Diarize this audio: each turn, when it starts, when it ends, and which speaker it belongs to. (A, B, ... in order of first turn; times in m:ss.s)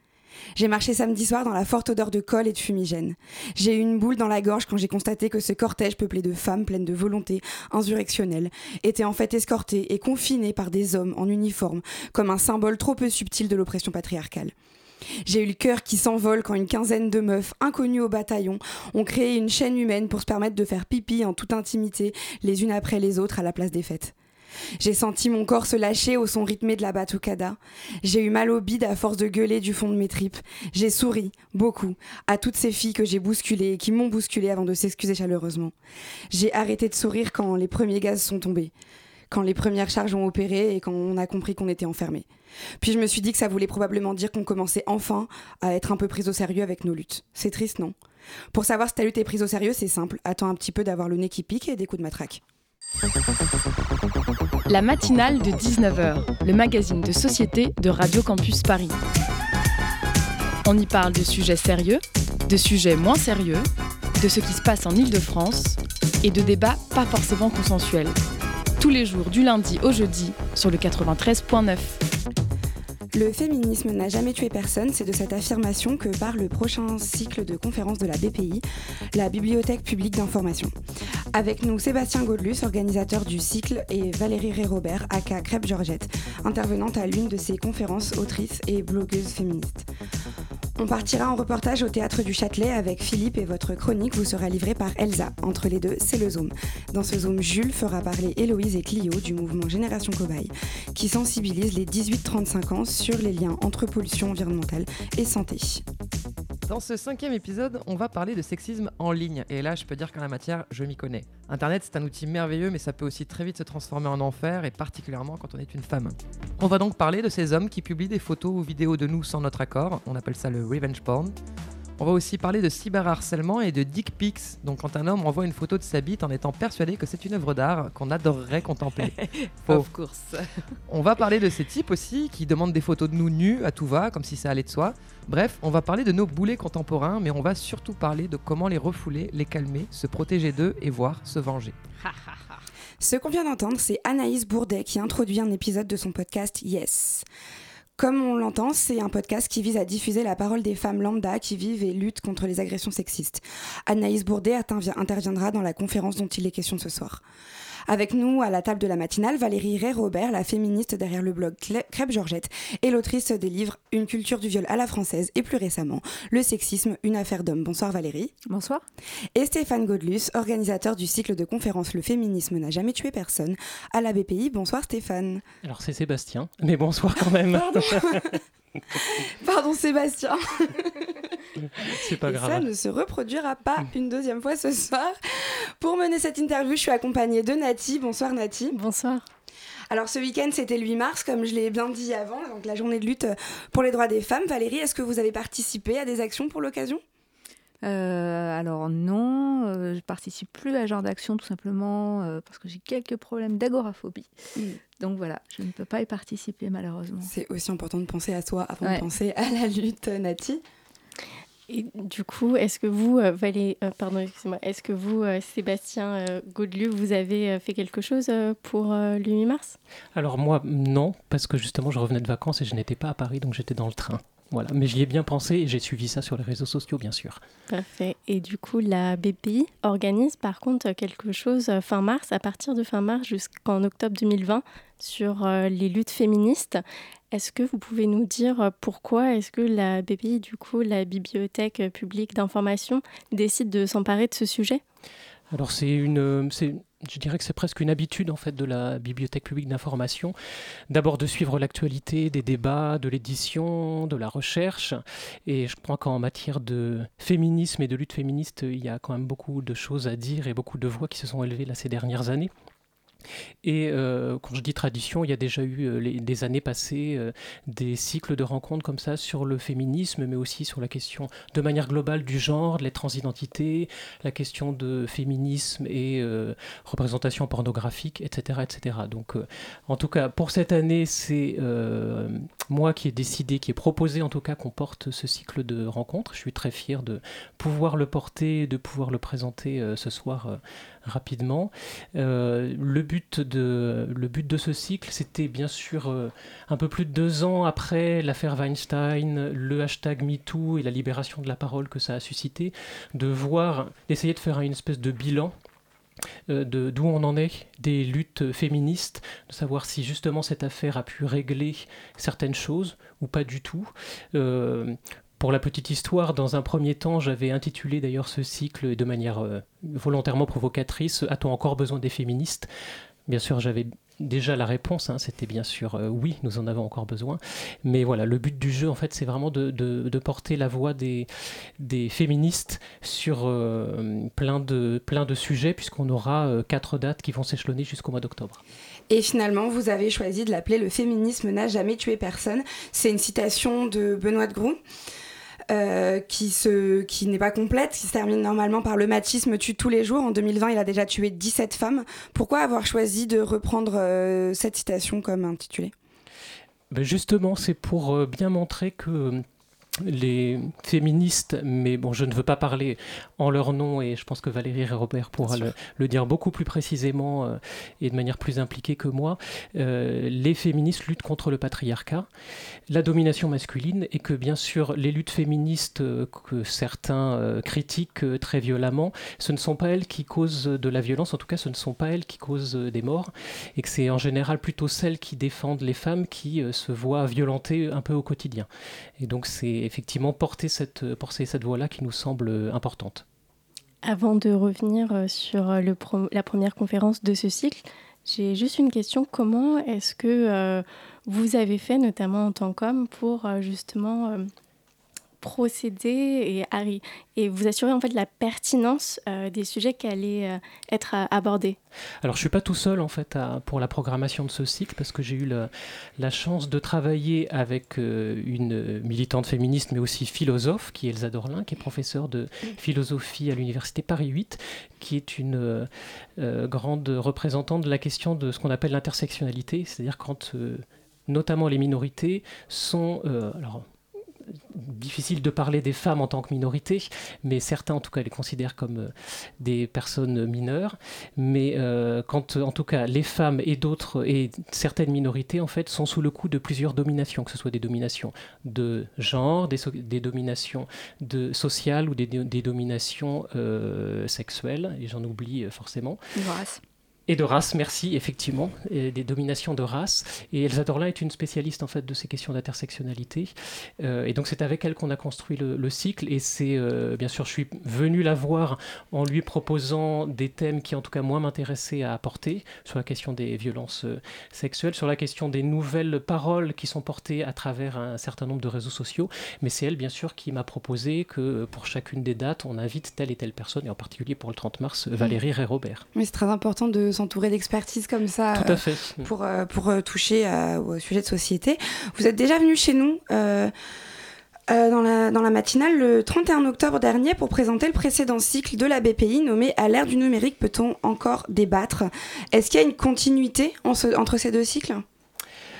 0:00.6-0:14.5 A
0:15.2-0:24.1 A
0:24.8-0:35.7 A
0:36.3-0:38.7 A
0:39.3-0:42.2 A
0:42.8-0:48.0 A
0:48.5-0:52.4 A
0:54.7-0:59.0 B
1:00.6-1:03.7 B
1:04.2-1:08.2 B
1:08.8-1:12.0 B
1:13.1-1:20.7 A
1:21.3-1:29.9 A
1:30.8-1:45.8 A
1:46.7-2:01.4 C
2:02.0-2:21.8 C
2:23.0-2:27.2 A
2:28.0-2:37.2 A
2:37.9-2:48.3 A
2:48.4-2:48.8 D
2:49.3-2:55.4 A
2:55.6-2:58.4 E
2:59.0-3:01.2 A
3:01.8-3:02.7 E
3:01.8-3:08.7 A
3:08.7-3:09.2 F
3:09.9-3:17.0 A
3:17.8-3:24.3 D
3:25.0-3:27.3 D
3:27.2-3:30.6 A
3:31.7-3:39.8 F
3:40.1-3:47.4 E
3:47.7-4:04.8 F
4:05.5-4:10.3 E
4:10.9-4:22.5 E
4:23.6-5:05.5 E
5:06.5-5:22.7 E
5:23.3-5:38.6 E
5:39.1-5:44.8 A
5:45.7-5:55.9 A
5:56.9-5:59.4 E
6:00.0-6:12.3 E
6:05.4-6:05.7 A
6:12.9-6:28.7 E
6:29.2-6:33.2 E
6:34.0-6:44.5 F
6:45.4-6:51.8 F
6:52.2-7:13.8 E
7:14.5-7:36.2 E
7:36.4-7:36.8 D
7:37.3-8:06.0 E
8:06.1-8:13.7 A
8:08.6-8:09.3 E
8:14.7-8:25.0 A